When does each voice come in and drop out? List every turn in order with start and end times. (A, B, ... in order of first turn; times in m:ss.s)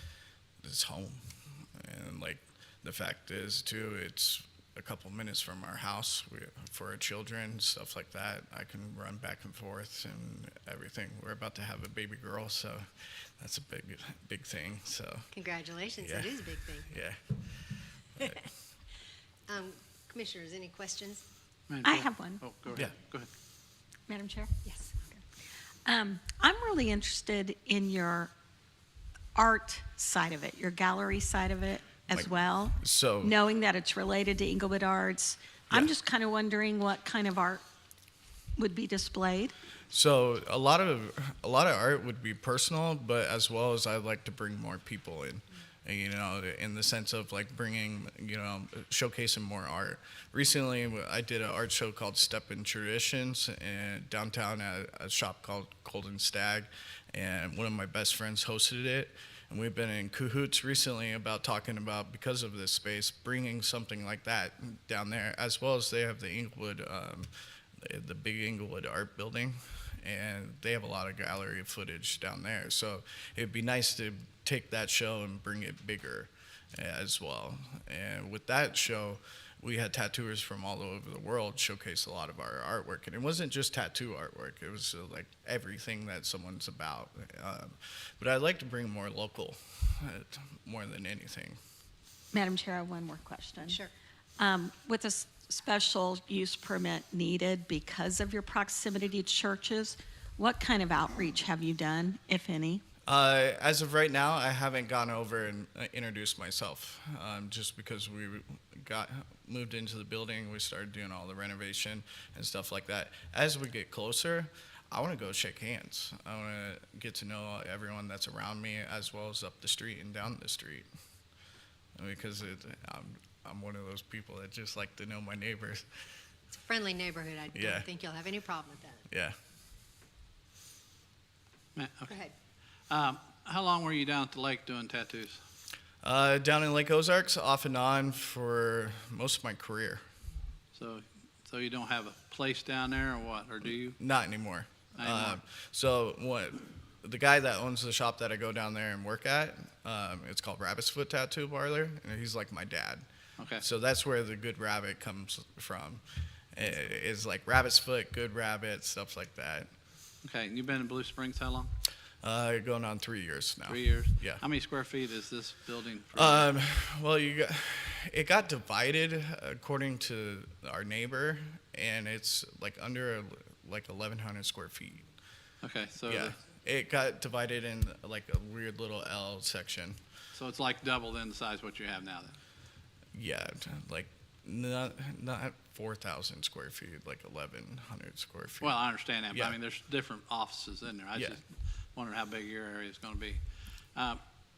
0:00.6-0:15.3 A
0:15.3-0:16.9 B
0:16.0-0:17.4 A
0:18.2-0:18.5 A
0:19.5-0:21.2 B
0:21.7-0:23.3 C
0:21.8-0:22.4 D
0:24.1-0:24.5 D
0:24.6-0:25.2 B
0:25.8-0:28.3 D
0:29.4-0:37.6 D
0:32.1-0:33.4 A
0:38.6-0:39.5 D
0:39.9-1:07.3 A
1:07.8-1:31.6 A
1:32.3-1:33.8 D
1:33.6-1:33.9 B
1:34.4-1:42.8 D
1:43.1-2:00.9 A
2:02.0-2:05.8 A
2:06.6-2:09.0 B
2:07.5-2:07.9 A
2:09.1-2:09.4 A
2:11.8-2:12.2 C
2:12.1-2:12.4 B
2:12.9-2:15.4 C
2:16.0-2:20.0 A
2:20.8-2:24.0 C
2:24.0-2:33.1 A
2:25.0-2:25.4 C
2:33.4-2:33.6 C
2:33.6-2:39.7 A
2:40.2-2:41.7 C
2:42.2-2:44.4 A
2:43.7-2:46.5 C
2:46.2-2:55.1 A
2:55.6-2:56.4 C
2:56.1-3:00.0 A
3:00.3-3:02.4 C
3:03.1-3:09.6 A
3:08.6-3:13.4 C
3:14.0-3:14.2 C